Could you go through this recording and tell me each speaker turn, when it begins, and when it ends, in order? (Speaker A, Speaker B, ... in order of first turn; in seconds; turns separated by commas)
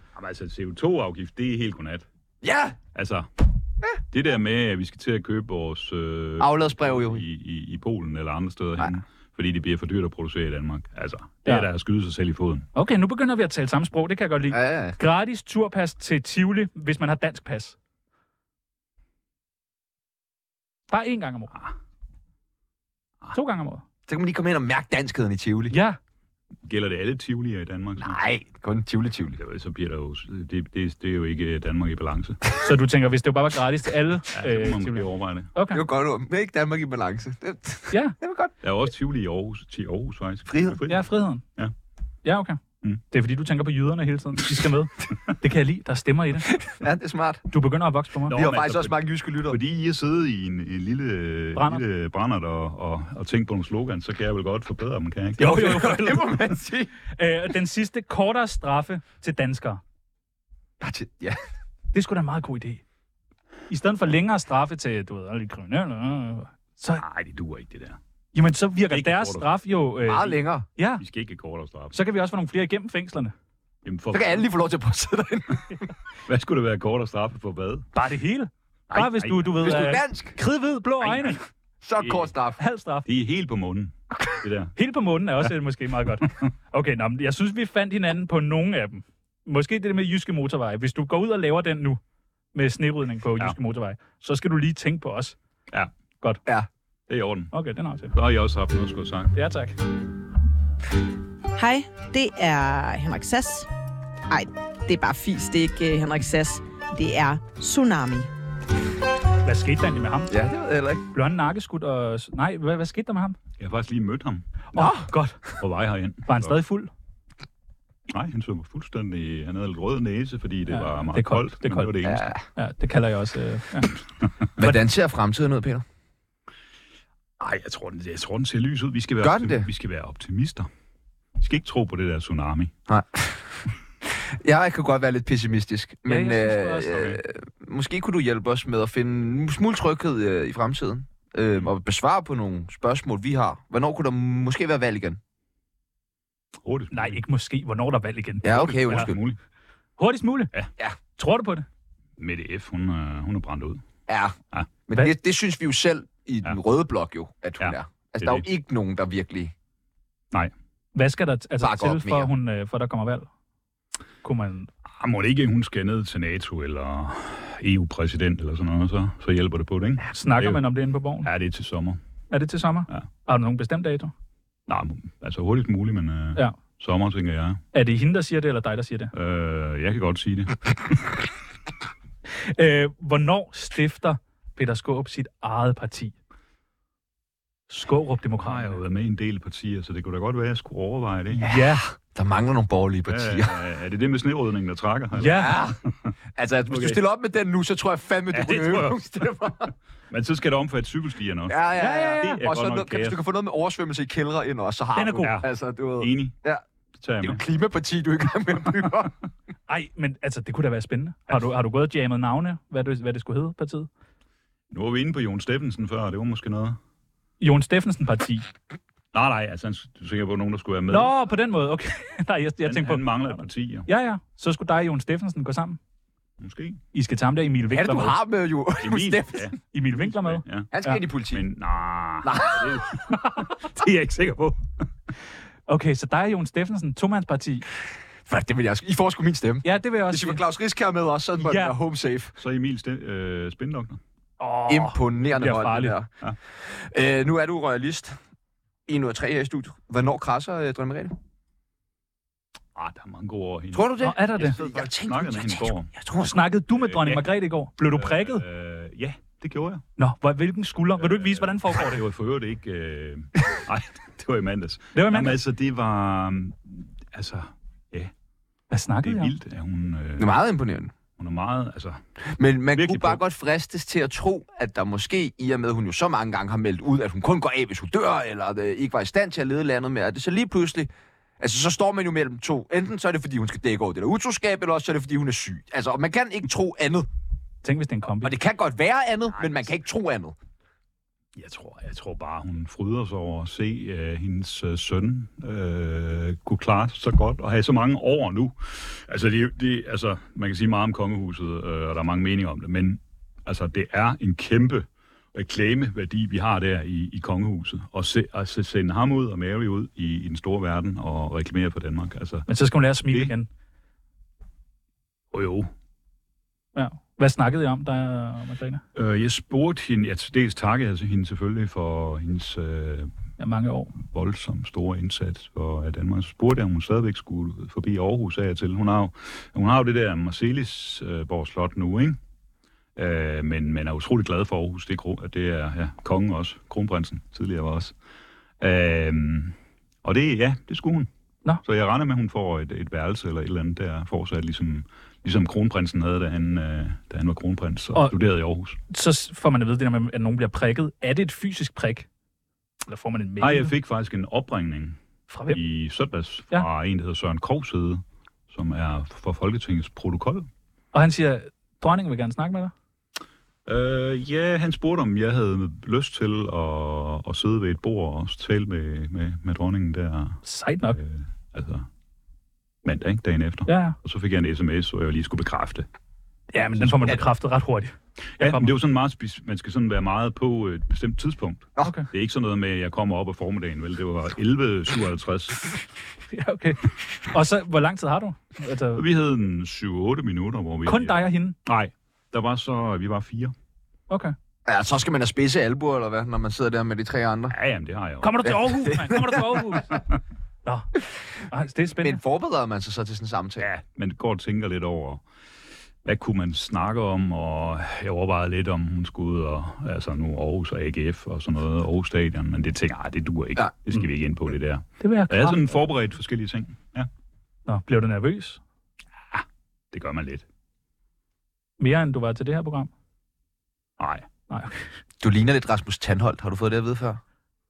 Speaker A: 0.1-2.1, Speaker B: 2.4-2.8, Speaker A: 2.9-3.3, Speaker A: 4.1-12.7, Speaker B: 6.4-7.2, Speaker C: 12.8-17.8, Speaker B: 14.5-15.0, Speaker C: 20.9-21.5, Speaker C: 23.3-23.8, Speaker B: 24.1-25.8, Speaker C: 25.7-26.0, Speaker A: 26.6-28.2, Speaker B: 28.0-29.4, Speaker A: 29.4-32.4, Speaker C: 32.6-35.8, Speaker A: 34.3-35.5, Speaker B: 35.7-38.5, Speaker C: 37.9-38.2, Speaker A: 38.6-41.7, Speaker B: 40.5-40.8, Speaker C: 40.9-41.4, Speaker C: 42.2-42.6, Speaker C: 43.1-46.5, Speaker B: 46.5-47.5, Speaker C: 47.5-48.4, Speaker B: 48.3-49.6, Speaker A: 48.3-55.8, Speaker C: 51.5-51.8, Speaker B: 55.4-56.9, Speaker C: 55.4-56.4, Speaker C: 57.1-59.8, Speaker B: 60.8-61.4, Speaker C: 61.9-62.8, Speaker C: 63.7-67.0, Speaker A: 67.0-68.0, Speaker C: 68.3-71.0, Speaker A: 68.9-69.5, Speaker B: 70.0-70.7, Speaker A: 71.0-72.0, Speaker C: 71.9-73.3, Speaker A: 73.8-74.5, Speaker B: 74.1-75.9, Speaker A: 76.3-77.9, Speaker C: 77.9-81.4, Speaker A: 78.9-80.0, Speaker B: 79.6-80.4, Speaker B: 81.8-82.6, Speaker A: 82.0-82.3, Speaker C: 82.6-83.1, Speaker A: 83.1-84.8, Speaker C: 84.8-92.0, Speaker C: 92.5-95.4, Speaker A: 97.1-97.5, Speaker C: 97.5-98.1, Speaker A: 98.1-99.3, Speaker C: 99.3-99.8, Speaker D: 101.6-103.7, Speaker D: 104.3-108.3, Speaker C: 109.4-110.4, Speaker B: 110.3-111.0, Speaker C: 111.1-113.4, Speaker A: 113.6-114.5, Speaker C: 114.8-115.4, Speaker B: 114.8-115.0, Speaker A: 115.6-116.5, Speaker C: 116.3-116.9, Speaker A: 118.1-122.3, Speaker C: 120.7-122.0, Speaker B: 122.0-122.4, Speaker C: 122.5-123.9, Speaker B: 124.6-125.8, Speaker A: 127.4-130.7, Speaker B: 129.2-129.7, Speaker A: 131.4-132.7, Speaker B: 132.9-145.2, Speaker C: 136.1-137.1, Speaker A: 136.9-137.2, Speaker A: 146.6-147.2, Speaker C: 146.9-149.1, Speaker B: 148.4-149.2, Speaker A: 148.4-149.4, Speaker C: 150.0-150.5, Speaker C: 151.2-151.7, Speaker A: 152.2-153.8, Speaker B: 154.1-154.4, Speaker B: 154.9-159.5, Speaker A: 157.6-158.5, Speaker C: 160.9-163.3, Speaker B: 161.6-162.3, Speaker C: 164.2-164.7, Speaker A: 165.0-170.7, Speaker C: 170.1-171.3, Speaker A: 171.2-172.0, Speaker C: 172.3-174.1, Speaker A: 174.7-177.6, Speaker C: 177.7-179.1, Speaker A: 179.1-181.3, Speaker C: 182.3-186.2, Speaker C: 187.7-188.8, Speaker A: 188.4-191.4, Speaker C: 191.4-191.9, Speaker B: 191.4-193.6, Speaker A: 193.1-196.1, Speaker C: 195.2-195.6, Speaker B: 195.2-195.8, Speaker B: 196.4-199.7, Speaker A: 196.7-197.0, Speaker A: 198.3-199.1, Speaker A: 200.1-201.7, Speaker B: 201.5-206.6, Speaker C: 201.8-202.4, Speaker A: 202.2-203.2, Speaker C: 204.9-205.4, Speaker A: 206.0-206.4, Speaker A: 207.0-207.4, Speaker B: 207.2-209.1, Speaker C: 209.7-213.9, Speaker A: 214.7-216.8, Speaker C: 217.4-218.5, Speaker A: 219.1-221.1, Speaker C: 220.9-225.8, Speaker A: 222.6-223.9, Speaker A: 226.4-226.8, Speaker C: 226.9-228.2, Speaker B: 227.7-229.5, Speaker A: 228.8-230.7, Speaker C: 229.7-231.0, Speaker B: 230.7-231.4, Speaker A: 231.3-234.6, Speaker B: 232.2-232.8, Speaker C: 235.7-237.7, Speaker B: 238.3-242.3, Speaker C: 239.6-240.4, Speaker C: 241.4-241.8, Speaker A: 242.4-244.0, Speaker C: 244.4-246.0, Speaker B: 244.7-248.2, Speaker B: 248.9-251.2, Speaker A: 252.8-255.9, Speaker B: 253.7-256.4, Speaker C: 254.0-254.6, Speaker C: 256.2-258.4, Speaker A: 256.8-257.3, Speaker A: 257.9-259.8, Speaker C: 260.0-262.0, Speaker A: 261.0-268.1, Speaker C: 264.9-265.4, Speaker C: 268.7-269.3, Speaker A: 269.0-270.4, Speaker B: 270.2-270.9, Speaker A: 271.2-272.0, Speaker B: 272.4-287.1, Speaker A: 272.8-273.2, Speaker C: 287.6-288.3, Speaker B: 288.2-290.4, Speaker A: 291.4-312.5, Speaker C: 312.5-313.5, Speaker A: 313.1-313.3, Speaker A: 315.3-315.7, Speaker C: 316.8-318.8, Speaker A: 318.9-323.1, Speaker C: 323.4-323.9, Speaker A: 324.0-332.2, Speaker A: 333.0-337.9, Speaker A: 338.6-341.1, Speaker A: 341.6-348.8, Speaker C: 348.9-352.1, Speaker C: 352.9-353.7, Speaker A: 353.4-355.0, Speaker C: 355.3-355.6, Speaker A: 355.5-360.5, Speaker C: 360.9-362.7, Speaker A: 363.7-370.4, Speaker C: 370.4-371.0, Speaker A: 370.9-371.9, Speaker A: 372.9-375.9, Speaker C: 373.7-374.0, Speaker C: 376.5-378.7, Speaker A: 376.8-377.2, Speaker A: 378.4-385.8, Speaker C: 381.8-382.1, Speaker C: 386.3-389.0, Speaker A: 388.9-393.5, Speaker C: 390.9-391.6, Speaker C: 394.1-394.4, Speaker B: 394.7-397.6, Speaker A: 397.5-398.5, Speaker C: 398.2-400.0, Speaker B: 398.4-399.6, Speaker C: 401.5-402.2, Speaker B: 401.9-403.7, Speaker A: 403.6-405.2, Speaker A: 406.1-417.1, Speaker C: 415.0-415.7, Speaker C: 417.7-418.6, Speaker A: 419.3-420.4, Speaker C: 421.8-422.9, Speaker A: 424.0-424.3, Speaker C: 424.5-424.9, Speaker B: 425.2-427.2